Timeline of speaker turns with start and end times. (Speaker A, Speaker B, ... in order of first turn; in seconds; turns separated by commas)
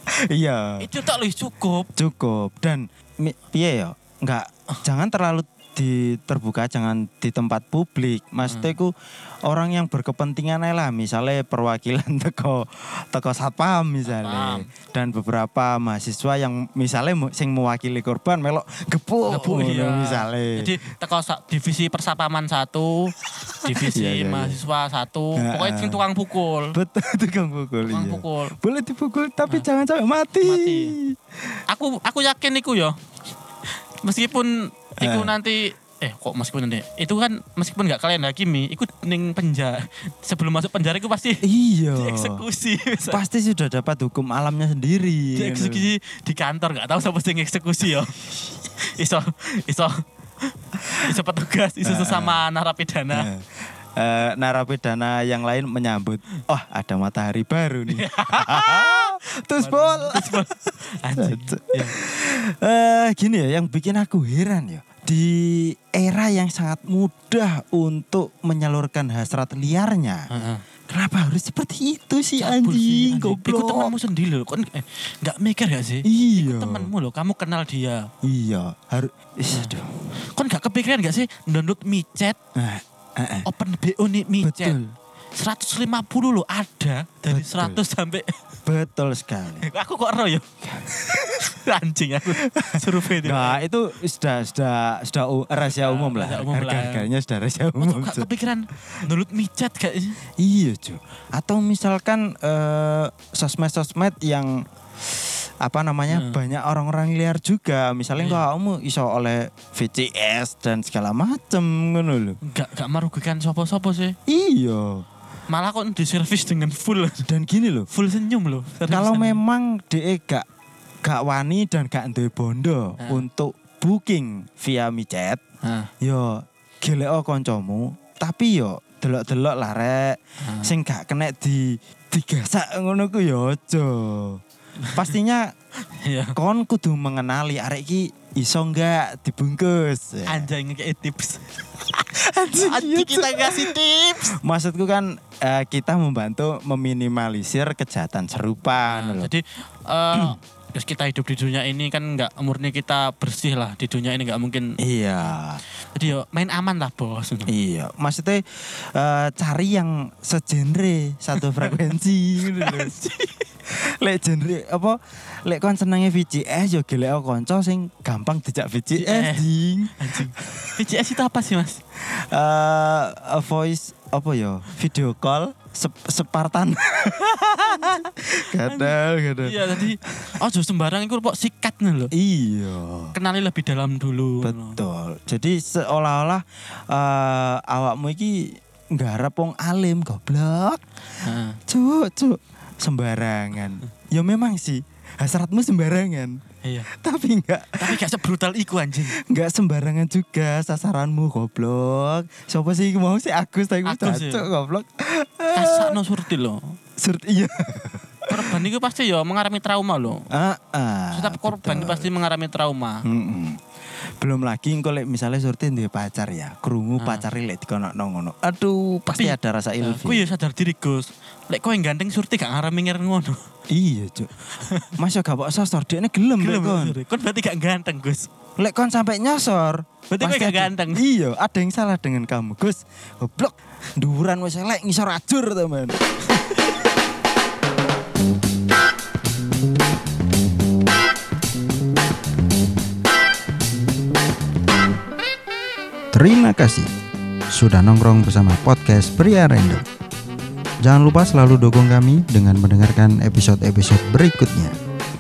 Speaker A: 0.2-0.9, Speaker B: 0.8-1.9, Speaker A: 1.9-8.9, Speaker B: 8.5-8.8, Speaker A: 9.5-20.8, Speaker B: 14.1-14.7, Speaker B: 19.3-26.8, Speaker A: 23.7-24.6, Speaker A: 25.4-26.1, Speaker A: 26.7-31.6, Speaker B: 27.8-28.6, Speaker B: 30.4-31.0, Speaker B: 31.7-33.0, Speaker B: 34.0-43.2, Speaker A: 35.0-35.4, Speaker A: 41.4-42.5, Speaker A: 43.1-45.9, Speaker B: 45.4-53.3, Speaker A: 51.8-52.5, Speaker A: 53.1-60.5, Speaker B: 57.9-62.0, Speaker A: 61.1-70.3, Speaker B: 70.3-70.7, Speaker A: 70.9-73.9, Speaker B: 72.4-78.1, Speaker A: 76.0-76.9, Speaker A: 78.2-79.9, Speaker B: 79.5-79.8, Speaker B: 80.3-82.4, Speaker A: 82.6-83.5, Speaker B: 83.5-84.8, Speaker A: 84.4-84.9, Speaker B: 85.4-88.4, Speaker A: 87.3-87.8, Speaker A: 88.7-89.7, Speaker B: 89.6-93.7, Speaker A: 90.9-91.2, Speaker A: 92.3-98.3, Speaker B: 95.7-97.1, Speaker B: 97.8-100.2, Speaker A: 100.4-112.4, Speaker B: 106.1-106.4, Speaker B: 108.1-108.5, Speaker B: 112.4-114.2, Speaker A: 114.3-115.0, Speaker B: 115.5-117.2, Speaker A: 117.2-117.9, Speaker B: 117.9-119.4, Speaker A: 118.9-120.5, Speaker A: 121.0-125.4, Speaker B: 123.0-123.3, Speaker B: 125.6-125.9, Speaker A: 126.0-134.4, Speaker B: 130.4-130.7, Speaker A: 134.9-135.5, Speaker B: 136.0-136.4, Speaker A: 136.4-140.5, Speaker B: 140.2-144.4, Speaker A: 142.2-149.3, Speaker B: 148.9-154.8, Speaker A: 154.8-155.6, Speaker B: 155.9-157.5, Speaker A: 157.5-163.0, Speaker B: 161.4-163.4, Speaker A: 163.7-170.7, Speaker B: 168.9-171.8, Speaker A: 172.0-180.4, Speaker B: 177.6-182.1, Speaker A: 182.1-183.2, Speaker B: 183.1-184.8, Speaker A: 184.4-190.8, Speaker B: 191.2-191.6, Speaker A: 191.7-196.4, Speaker B: 196.6-196.9, Speaker A: 196.9-198.1, Speaker B: 197.8-199.2, Speaker A: 199.0-206.1, Speaker B: 203.8-204.5, Speaker B: 205.5-206.8, Speaker A: 207.0-208.7, Speaker B: 208.3-210.2, Speaker A: 210.3-212.1, Speaker B: 211.1-213.0, Speaker A: 213.1-213.6, Speaker A: 214.2-220.3, Speaker B: 217.0-217.3, Speaker B: 219.1-223.4, Speaker A: 223.7-224.3, Speaker B: 224.6-225.0, Speaker A: 225.0-227.0, Speaker B: 226.4-228.3, Speaker A: 228.6-236.0, Speaker B: 230.1-231.1, Speaker B: 236.3-236.6, Speaker A: 246.1-246.9, Speaker A: 247.5-249.8, Speaker A: 250.8-254.8